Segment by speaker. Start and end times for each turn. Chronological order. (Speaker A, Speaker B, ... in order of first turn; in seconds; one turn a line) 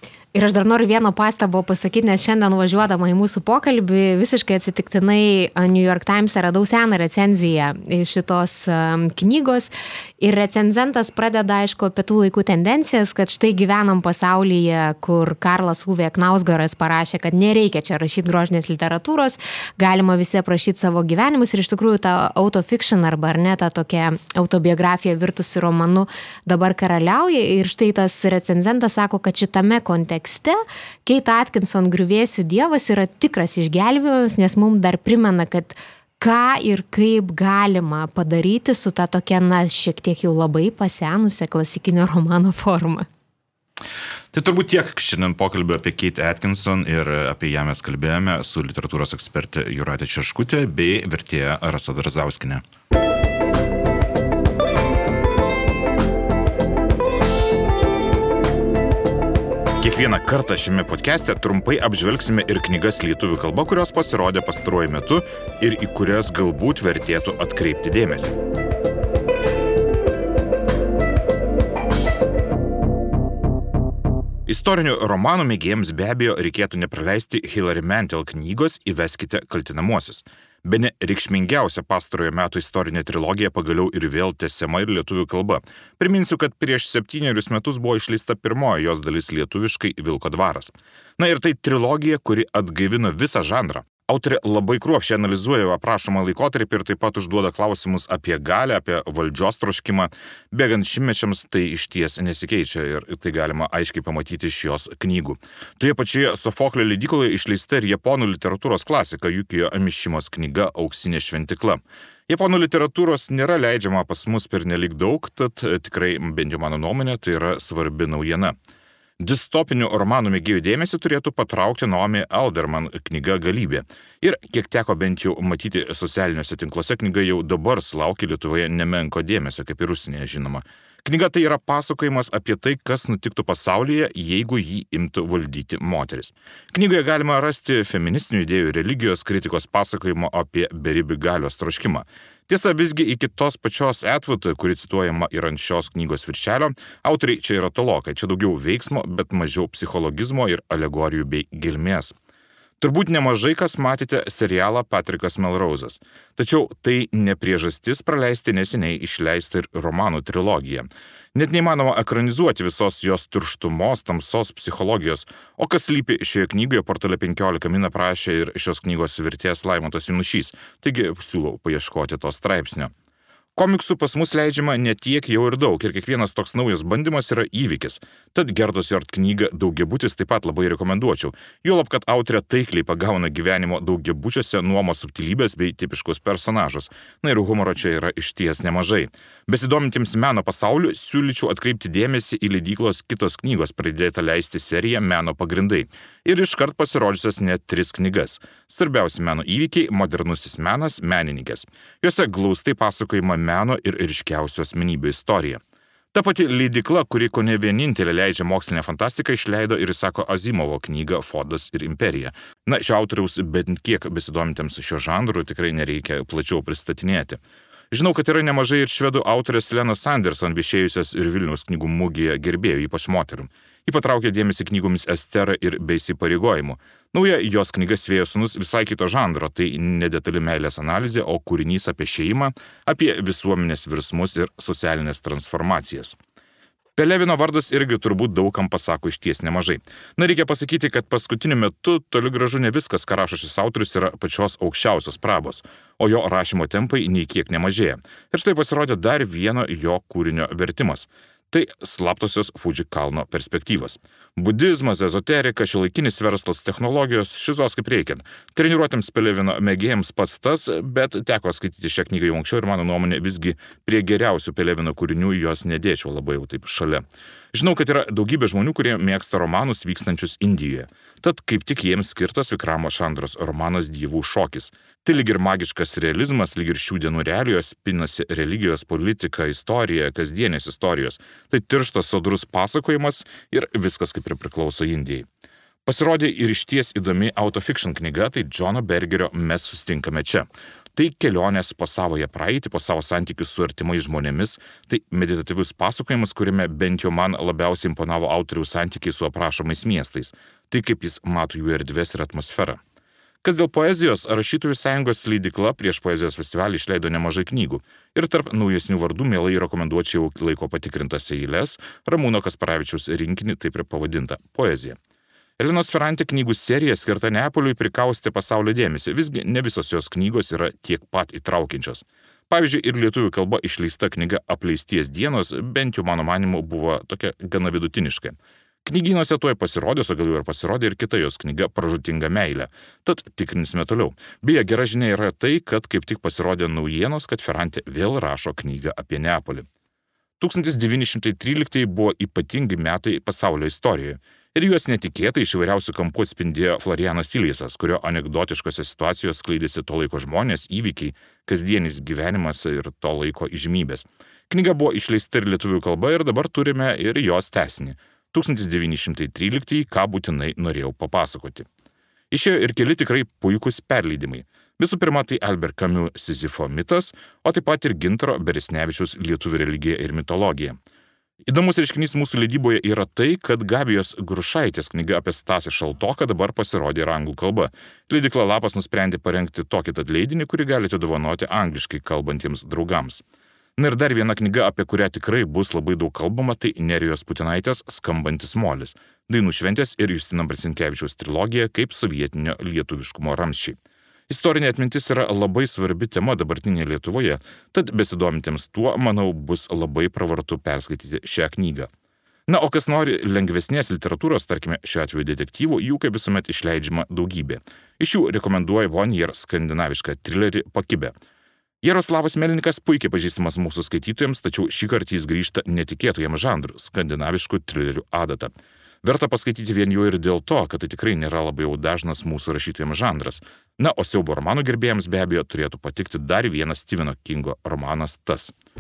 Speaker A: 0.3-43.1
Speaker B: 44.3-52.6
Speaker B: 59.8-68.3
Speaker C: 60.2-62.4
Speaker C: 64.6-64.9
Speaker C: 66.9-67.7
Speaker B: 74.5-111.8
Speaker C: 93.8-94.2
Speaker B: 112.3-118.5
Speaker C: 113.0-113.2
Speaker B: 119.2-152.1
Speaker C: 143.5-144.0
Speaker B: 152.8-160.8
Speaker C: 153.5-154.8
Speaker C: 156.4-157.1
Speaker C: 157.7-158.6
Speaker C: 159.3-160.6
Speaker B: 161.4-172.9
Speaker C: 162.2-166.8
Speaker C: 167.4-168.3
Speaker C: 170.4-170.8
Speaker C: 172.5-172.9
Speaker B: 173.6-195.7
Speaker C: 173.6-174.5
Speaker C: 176.0-176.4
Speaker C: 177.2-178.0
Speaker C: 181.5-182.0
Speaker C: 192.6-194.6
Speaker C: 195.3-197.6
Speaker B: 196.3-205.6
Speaker C: 200.7-201.2
Speaker C: 204.4-204.7
Speaker B: 206.1-217.4
Speaker B: 217.9-236.2
Speaker B: 237.0-267.0
Speaker C: 244.4-244.8
Speaker C: 245.5-246.6
Speaker C: 247.2-247.5
Speaker C: 251.5-251.9
Speaker C: 252.4-253.1
Speaker C: 255.1-255.8
Speaker C: 256.5-258.0
Speaker C: 258.6-258.9
Speaker C: 260.0-261.0
Speaker C: 266.1-266.4
Speaker B: 267.5-285.2
Speaker C: 269.2-269.7
Speaker C: 273.1-273.5
Speaker B: 285.9-290.4
Speaker C: 288.7-289.1
Speaker C: 291.0-291.7
Speaker B: 291.0-302.8
Speaker C: 295.0-295.2
Speaker C: 303.4-303.9
Speaker B: 303.4-314.9
Speaker C: 311.9-312.2
Speaker C: 314.4-314.9
Speaker B: 315.6-328.3
Speaker C: 320.7-321.2
Speaker C: 327.0-327.4
Speaker B: 328.9-339.6
Speaker C: 330.4-331.3
Speaker C: 335.5-335.8
Speaker C: 338.1-338.5
Speaker C: 339.1-339.6
Speaker C: 340.4-358.4
Speaker B: 340.4-344.1
Speaker B: 344.6-361.6
Speaker C: 359.6-361.6
Speaker B: 362.4-370.7
Speaker C: 364.4-364.8
Speaker C: 367.4-367.9
Speaker B: 371.5-383.2
Speaker C: 375.9-376.3
Speaker C: 376.9-377.3
Speaker B: 383.8-393.7
Speaker C: 386.9-387.6
Speaker C: 393.3-393.7
Speaker B: 394.3-401.9
Speaker C: 394.4-394.7
Speaker C: 395.4-396.0
Speaker C: 397.8-401.4
Speaker C: 402.5-411.1
Speaker B: 402.5-407.4
Speaker B: 408.0-411.0
Speaker C: 411.8-418.5
Speaker B: 411.9-417.6
Speaker B: 418.1-418.4
Speaker C: 419.0-428.5
Speaker B: 419.1-423.3
Speaker B: 424.8-426.9
Speaker B: 428.1-428.4